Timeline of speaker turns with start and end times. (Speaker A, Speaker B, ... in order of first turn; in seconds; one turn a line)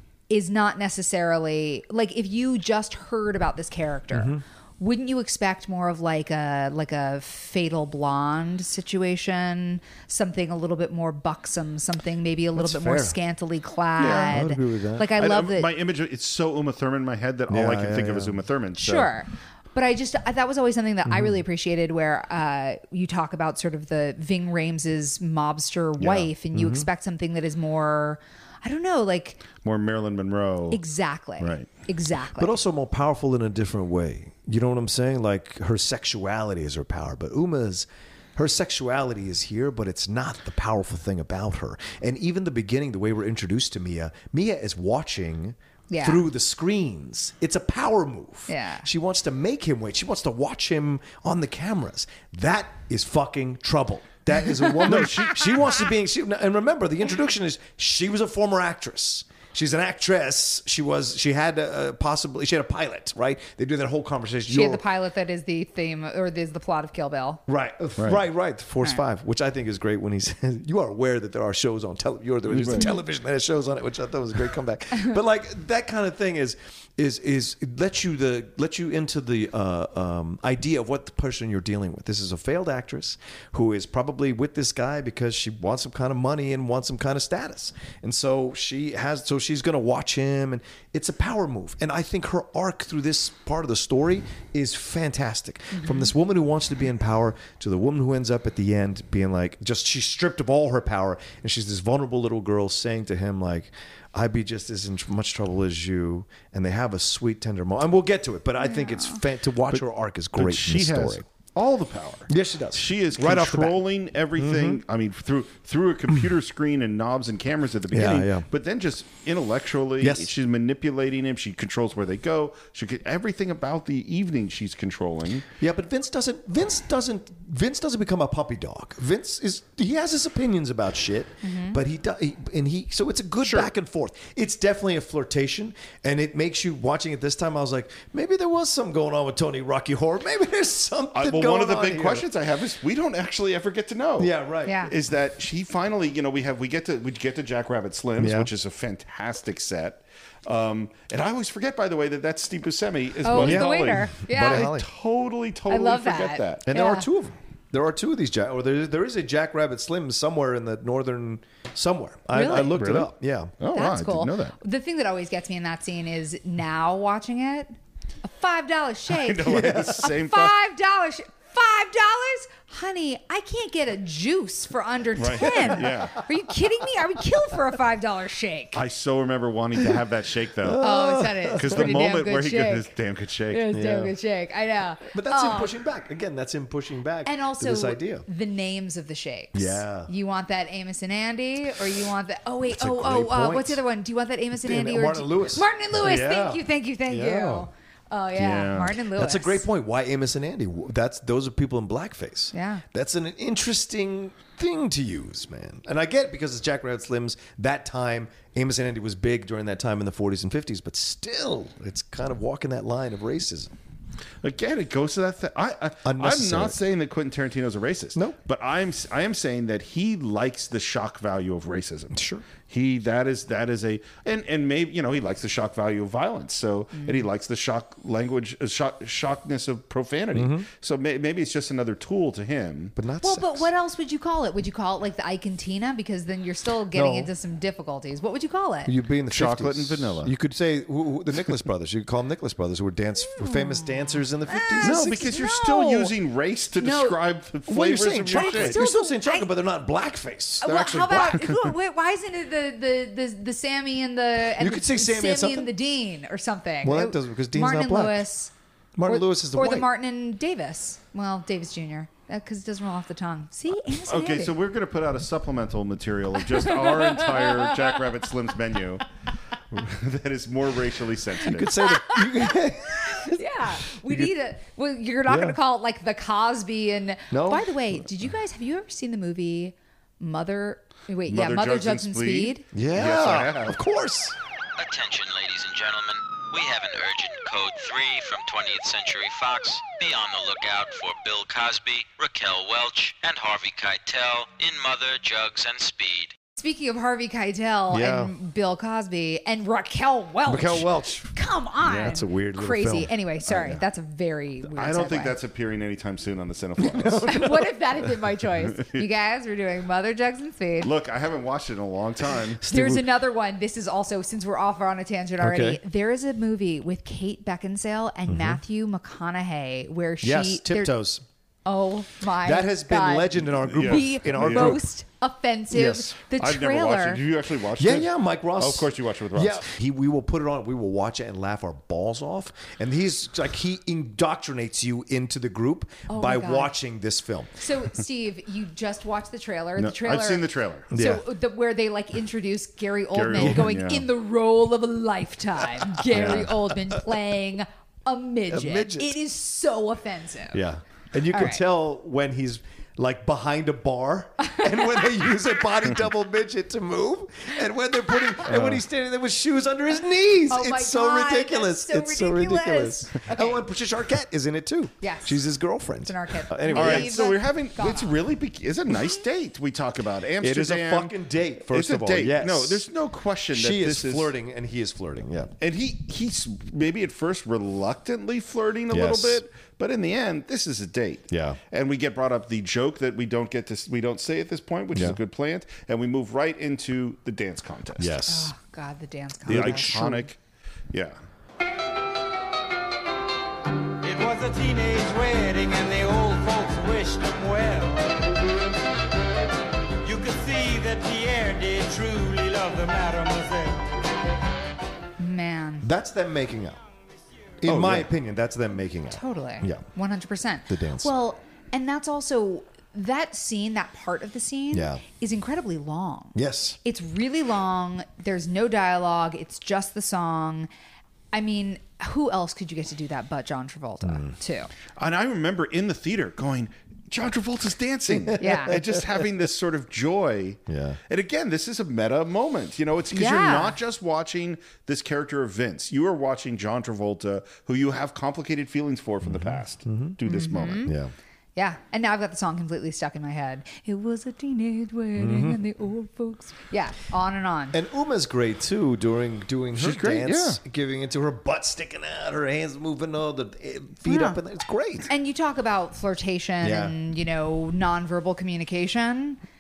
Speaker A: 0.3-15.7
Speaker B: 4.1-4.4
Speaker B: 12.6-13.2
Speaker C: 14.0-14.4
Speaker B: 14.0-15.1
Speaker C: 15.2-19.1
Speaker B: 17.5-18.4
Speaker A: 18.8-29.4
Speaker B: 21.1-21.4
Speaker C: 26.0-26.3
Speaker B: 26.5-26.9
Speaker C: 29.6-30.8
Speaker A: 30.7-32.5
Speaker C: 31.4-31.7
Speaker B: 32.4-64.8
Speaker A: 45.9-46.2
Speaker A: 48.5-48.9
Speaker A: 54.7-55.8
Speaker C: 54.8-55.7
Speaker A: 64.5-67.4
Speaker B: 67.5-111.2
Speaker C: 68.0-68.2
Speaker C: 72.5-72.9
Speaker A: 95.7-96.1
Speaker A: 108.6-109.2
Speaker C: 109.7-125.5
Speaker B: 112.3-113.8
Speaker B: 114.4-114.8
Speaker B: 117.9-118.5
Speaker B: 120.0-120.3
Speaker B: 125.6-142.2
Speaker A: 131.4-131.8
Speaker C: 133.4-133.7
Speaker C: 141.1-144.3
Speaker B: 144.2-144.9
Speaker A: 144.7-144.9
Speaker C: 144.9-156.6
Speaker B: 148.2-148.5
Speaker A: 153.2-154.7
Speaker B: 153.3-154.8
Speaker A: 155.7-157.1
Speaker B: 156.7-163.5
Speaker A: 162.3-162.7
Speaker C: 162.4-164.6
Speaker A: 163.7-178.8
Speaker C: 169.1-170.6
Speaker B: 169.4-170.1
Speaker C: 175.2-176.2
Speaker C: 178.7-180.9
Speaker B: 180.6-181.9
Speaker A: 180.8-182.9
Speaker C: 181.6-183.7
Speaker A: 183.5-185.7
Speaker B: 183.7-184.1
Speaker B: 185.1-188.2
Speaker A: 187.2-199.6
Speaker B: 189.5-190.1
Speaker B: 192.7-193.8
Speaker B: 194.6-197.7
Speaker C: 198.3-199.0
Speaker B: 199.1-213.7
Speaker A: 202.5-202.8
Speaker C: 214.4-232.9
Speaker B: 216.0-216.8
Speaker B: 222.1-222.4
Speaker A: 226.9-227.2
Speaker B: 230.3-230.7
Speaker B: 232.9-233.7
Speaker A: 233.2-238.9
Speaker B: 236.9-237.3
Speaker B: 238.8-245.3
Speaker C: 239.3-240.3
Speaker A: 243.3-246.1
Speaker C: 244.8-248.8
Speaker A: 246.8-247.2
Speaker B: 247.7-251.4
Speaker A: 248.3-249.5
Speaker A: 250.6-258.5
Speaker C: 250.6-251.7
Speaker B: 254.5-255.7
Speaker B: 256.8-258.3
Speaker B: 258.9-259.9
Speaker A: 259.1-264.5
Speaker C: 264.1-269.1
Speaker A: 266.5-268.1
Speaker C: 269.7-271.8
Speaker B: 271.5-274.3
Speaker A: 271.8-282.6
Speaker B: 275.3-275.6
Speaker B: 277.3-277.7
Speaker C: 281.3-283.8
Speaker B: 282.7-284.4
Speaker D: 284.8-296.3
Speaker A: 296.6-305.4
Speaker B: 297.9-298.3
Speaker B: 300.4-301.3
Speaker B: 301.8-303.8
Speaker C: 304.7-307.5
Speaker B: 306.8-307.7
Speaker A: 307.3-310.9
Speaker C: 308.6-309.0
Speaker C: 310.8-312.6
Speaker B: 312.6-313.1
Speaker A: 312.7-320.9
Speaker B: 315.4-315.8
Speaker B: 318.3-318.6
Speaker B: 320.2-321.2
Speaker A: 321.6-327.2
Speaker B: 322.4-324.8
Speaker C: 323.7-324.8
Speaker B: 325.7-326.1
Speaker C: 326.3-329.7
Speaker B: 327.8-337.5
Speaker A: 336.1-336.7
Speaker A: 337.6-350.6
Speaker C: 339.8-340.9
Speaker B: 340.9-341.2
Speaker C: 343.1-344.1
Speaker B: 343.4-343.7
Speaker B: 346.1-347.0
Speaker C: 346.1-346.5
Speaker B: 348.5-349.1
Speaker B: 350.5-367.3
Speaker A: 351.3-351.6
Speaker A: 354.5-355.3
Speaker C: 358.5-358.8
Speaker A: 360.5-363.6
Speaker A: 365.0-365.4
Speaker A: 366.0-368.2
Speaker C: 366.7-371.1
Speaker B: 370.4-372.8
Speaker C: 371.7-374.3
Speaker B: 373.5-375.6
Speaker C: 375.6-388.2
Speaker B: 378.9-379.4
Speaker B: 381.3-381.6
Speaker B: 384.9-385.2
Speaker B: 388.0-388.5
Speaker A: 388.3-389.9
Speaker B: 389.4-390.2
Speaker C: 389.5-390.4
Speaker C: 390.9-391.2
Speaker E: 394.0-398.3
Speaker E: 400.0-403.9
Speaker A: 405.2-405.9
Speaker B: 405.8-406.8
Speaker B: 407.6-409.9
Speaker C: 407.6-408.1
Speaker A: 409.1-416.3
Speaker B: 410.7-411.1
Speaker B: 414.7-415.0
Speaker B: 416.3-416.8
Speaker A: 416.8-420.7
Speaker A: 421.3-424.7
Speaker B: 424.0-424.3
Speaker C: 425.0-440.9
Speaker B: 428.1-429.3
Speaker A: 428.4-428.8
Speaker B: 430.7-431.0
Speaker A: 433.1-433.8
Speaker B: 439.2-440.2
Speaker A: 440.3-440.9
Speaker B: 440.8-441.1
Speaker A: 441.6-447.8
Speaker B: 445.1-445.6
Speaker B: 447.7-455.1
Speaker C: 449.8-450.6
Speaker A: 454.0-454.4
Speaker A: 455.1-459.4
Speaker B: 456.6-456.9